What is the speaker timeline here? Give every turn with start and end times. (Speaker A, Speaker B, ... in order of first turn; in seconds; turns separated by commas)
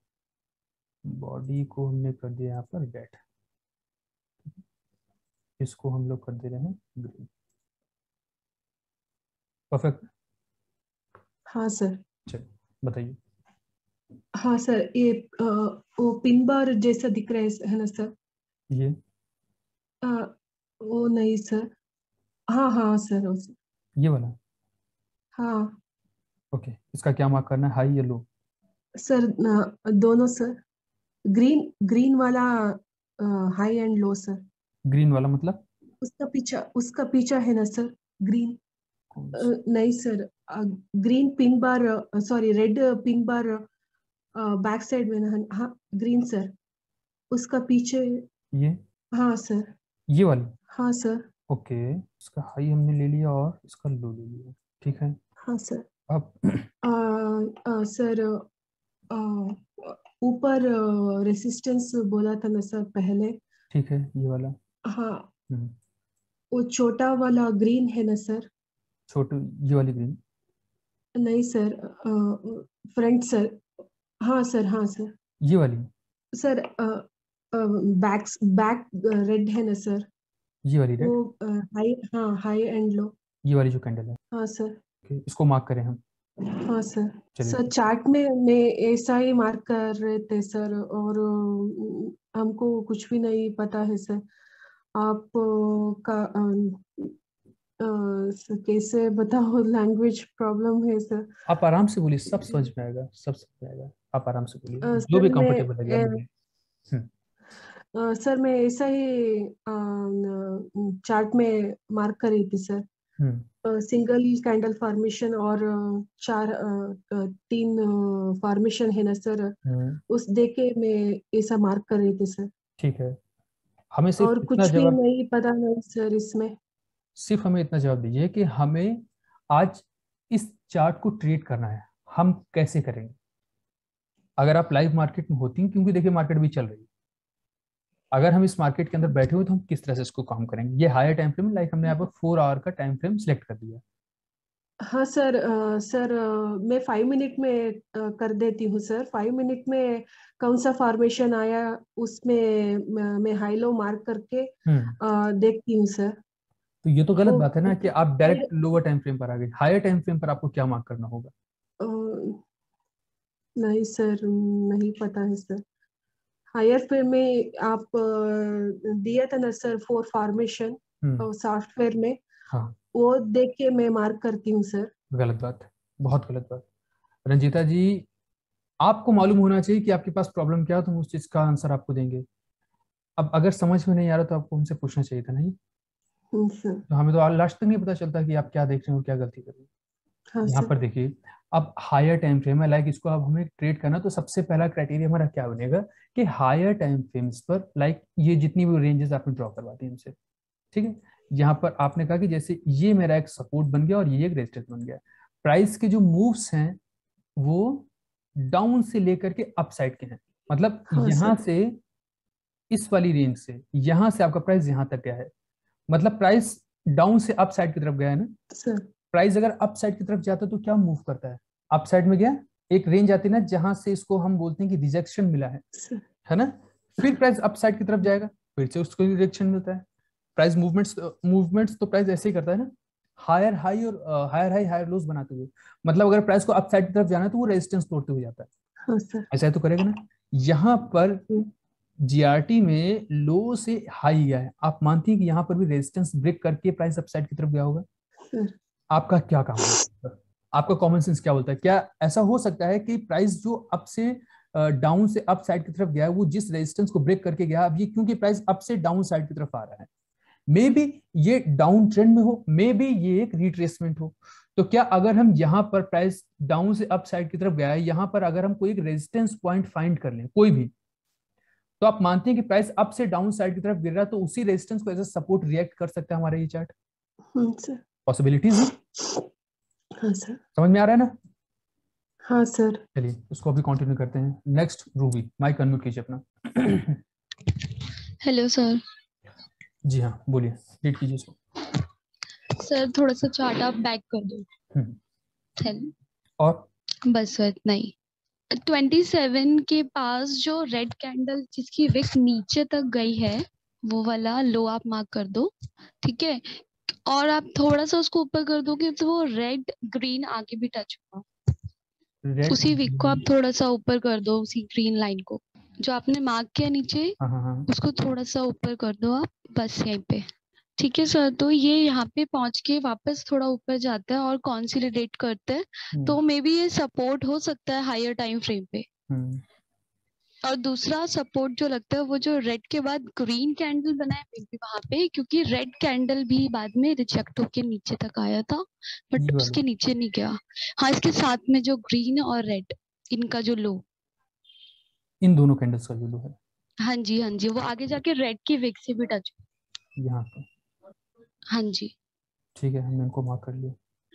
Speaker A: 1.0-3.2, Speaker A: 5.6-7.3, Speaker A: 9.7-10.1, Speaker B: 11.5-12.0, Speaker A: 12.2-13.2, Speaker B: 14.4-18.1, Speaker A: 18.7-18.9, Speaker B: 20.0-21.7, Speaker B: 22.5-23.6, Speaker A: 24.0-24.4, Speaker B: 25.4-25.8, Speaker A: 26.5-28.3, Speaker B: 29.0-30.6, Speaker B: 31.3-34.4, Speaker A: 34.9-35.6, Speaker B: 36.0-38.6, Speaker A: 39.1-39.5, Speaker B: 39.3-43.6, Speaker B: 44.4-46.5, Speaker B: 47.3-48.2, Speaker A: 48.5-48.8, Speaker B: 49.1-49.7, Speaker A: 50.1-50.5, Speaker B: 50.7-51.2, Speaker A: 51.5-55.2, Speaker B: 55.4-55.8, Speaker A: 56.1-56.7, Speaker B: 56.8-58.5, Speaker B: 59.1-63.4, Speaker A: 63.7-64.6, Speaker B: 64.9-65.3, Speaker A: 65.5-65.7, Speaker B: 66.5-68.5, Speaker A: 69.1-70.2, Speaker B: 71.2-73.6, Speaker B: 74.2-75.1, Speaker A: 75.4-75.9, Speaker B: 76.3-80.1, Speaker A: 80.6-81.2, Speaker B: 81.0-83.1, Speaker A: 83.4-84.2, Speaker B: 84.3-84.8, Speaker A: 85.0-86.0, Speaker B: 86.6-94.2, Speaker A: 87.3-87.7, Speaker B: 94.9-97.1, Speaker B: 97.8-101.3, Speaker A: 101.5-106.3, Speaker B: 104.8-106.2, Speaker B: 107.9-112.8, Speaker A: 113.2-113.5, Speaker B: 113.6-119.5, Speaker A: 119.6-120.0, Speaker B: 120.1-122.5, Speaker A: 122.8-123.2, Speaker A: 123.9-125.0, Speaker B: 124.2-126.5, Speaker A: 127.2-133.2, Speaker A: 134.4-136.9, Speaker A: 138.1-143.8, Speaker B: 144.8-154.5, Speaker A: 154.7-155.0, Speaker B: 155.0-156.2, Speaker A: 156.8-161.3, Speaker B: 157.2-158.5, Speaker B: 161.8-162.4, Speaker B: 163.6-165.6, Speaker B: 166.5-172.2, Speaker A: 171.0-171.3, Speaker A: 172.5-172.8, Speaker B: 172.9-174.9, Speaker A: 175.1-176.6, Speaker A: 177.2-178.1, Speaker A: 178.8-182.2, Speaker A: 183.2-185.6, Speaker B: 186.3-186.8, Speaker A: 186.9-189.7, Speaker B: 190.3-190.7, Speaker A: 190.4-200.1, Speaker A: 200.7-206.8, Speaker A: 207.4-211.8, Speaker B: 210.9-211.4, Speaker A: 212.7-215.3, Speaker A: 215.9-218.3, Speaker B: 218.5-218.9, Speaker A: 219.1-225.6, Speaker B: 225.7-226.0, Speaker A: 226.2-229.8, Speaker A: 230.3-238.5, Speaker B: 238.9-239.3, Speaker A: 239.3-241.2, Speaker A: 242.0-247.8, Speaker B: 248.3-248.5, Speaker A: 248.9-259.9, Speaker A: 260.5-270.7, Speaker A: 271.8-276.7, Speaker B: 277.3-277.8, Speaker A: 278.1-278.7, Speaker B: 280.0-280.4, Speaker A: 280.5-281.1, Speaker B: 282.2-282.8, Speaker A: 282.9-287.0, Speaker C: 288.2-288.8, Speaker A: 289.8-291.4, Speaker C: 292.5-294.4, Speaker A: 294.7-295.0, Speaker C: 295.6-295.9, Speaker A: 296.4-296.7, Speaker C: 297.1-297.9, Speaker C: 298.5-305.5, Speaker C: 306.0-311.2, Speaker A: 312.2-313.2, Speaker C: 312.5-328.9, Speaker A: 317.2-317.7, Speaker A: 325.9-326.2, Speaker A: 329.1-329.4, Speaker C: 330.4-343.8, Speaker A: 339.1-339.6, Speaker A: 345.2-346.4, Speaker C: 346.8-349.4, Speaker A: 350.0-350.4, Speaker C: 351.5-351.9, Speaker A: 352.6-353.8